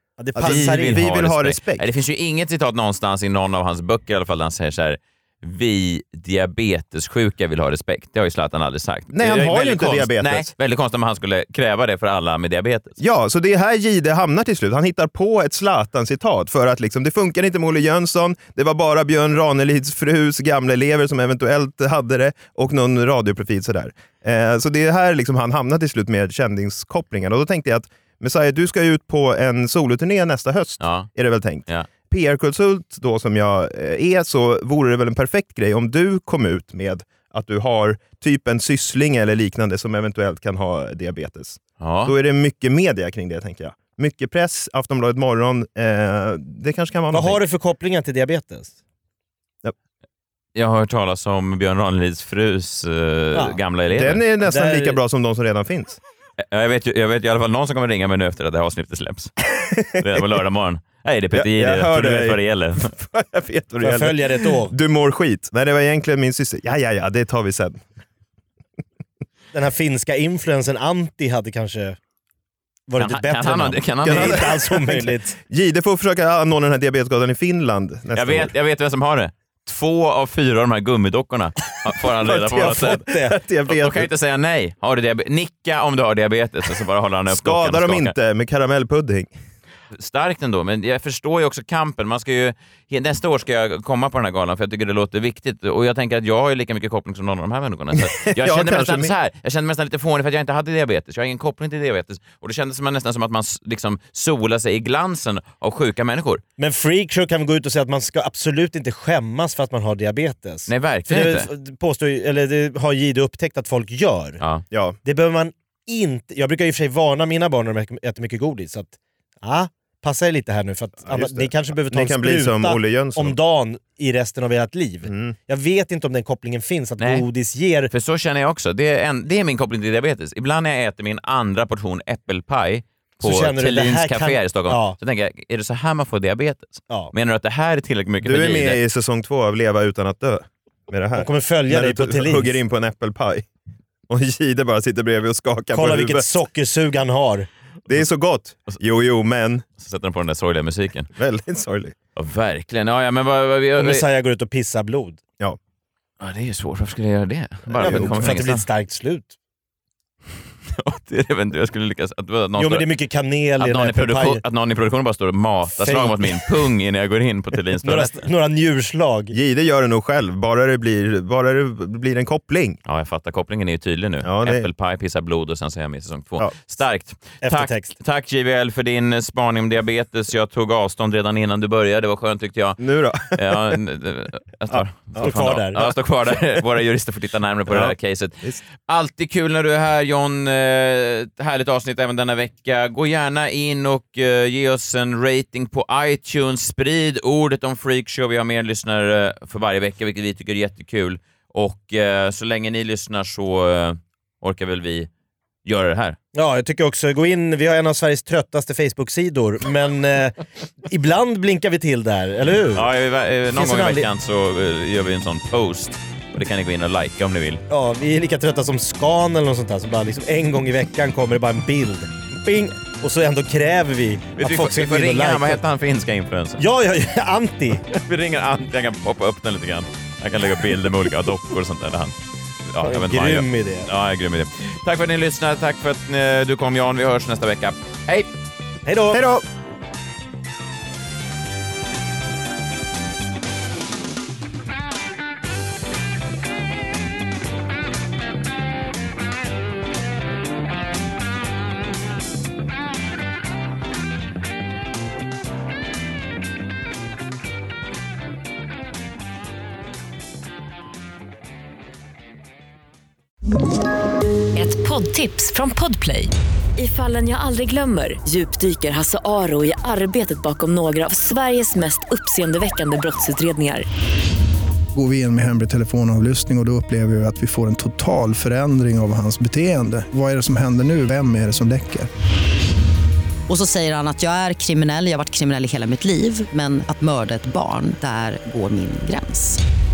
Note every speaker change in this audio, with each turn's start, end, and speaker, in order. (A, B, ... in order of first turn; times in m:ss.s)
0:00.2-0:01.0 A
0:00.4-0:01.8 B
0:00.4-0:13.0 C
0:09.1-0:10.5 B
0:13.0-0:47.4 B
0:30.8-0:31.1 C
0:41.8-0:42.1 C
0:47.1-0:48.7 A
0:50.5-0:54.2 C
0:53.9-0:56.0 B
0:54.4-0:55.0 A
0:56.5-0:59.4 C
0:59.5-1:00.4 B
1:00.0-1:02.9 C
1:01.3-1:07.8 B
1:03.8-1:04.7 A
1:09.5-1:12.0 A
1:12.9-1:15.4 A
1:13.0-1:14.5 C
1:14.0-1:18.5 B
1:18.1-1:23.0 C
1:22.0-1:24.1 B
1:23.0-1:23.3 A
1:23.7-1:28.1 C
1:27.3-1:29.3 B
1:29.9-1:46.4 C
1:38.0-1:39.1 B
1:46.6-1:54.4 A
1:50.7-1:51.5 C
1:54.7-1:55.0 B
1:55.0-2:07.9 A
2:01.0-2:03.4 B
2:05.0-2:05.3 B
2:07.0-2:07.2 C
2:07.9-2:18.8 C
2:13.2-2:15.0 A
2:18.2-2:23.5 B
2:21.2-2:22.6 A
2:24.1-2:26.3 B
2:25.7-2:27.5 A
2:27.9-2:29.6 B
2:29.8-2:31.1 C
2:31.2-2:32.0 B
2:32.2-2:34.0 C
2:33.8-2:35.2 A
2:36.2-2:38.6 C
2:37.7-2:38.4 B
2:37.8-2:39.3 A
2:40.7-2:42.8 C
2:42.6-2:44.4 A
2:43.6-2:48.2 C
2:45.8-2:46.5 A
2:47.8-2:49.3 A
2:49.3-2:52.8 B
2:52.8-3:25.1 C
2:54.2-2:54.7 B
2:57.4-2:57.9 A
3:02.8-3:03.8 B
3:04.7-3:05.3 B
3:05.2-3:05.9 A
3:07.7-3:08.6 B
3:25.6-3:26.2 C
3:26.3-3:30.4 A
3:30.9-3:32.9 A
3:32.7-3:37.6 C
3:33.5-3:34.1 A
3:37.7-3:45.6 A
3:44.4-3:46.6 C
3:46.6-3:47.9 A
3:47.8-3:52.1 C
3:52.7-3:58.3 C
3:52.8-3:53.9 A
3:58.8-3:59.2 A
3:59.1-3:59.4 B
4:24.5-4:33.8 D
4:34.9-4:42.1 E
4:43.5-4:49.6 F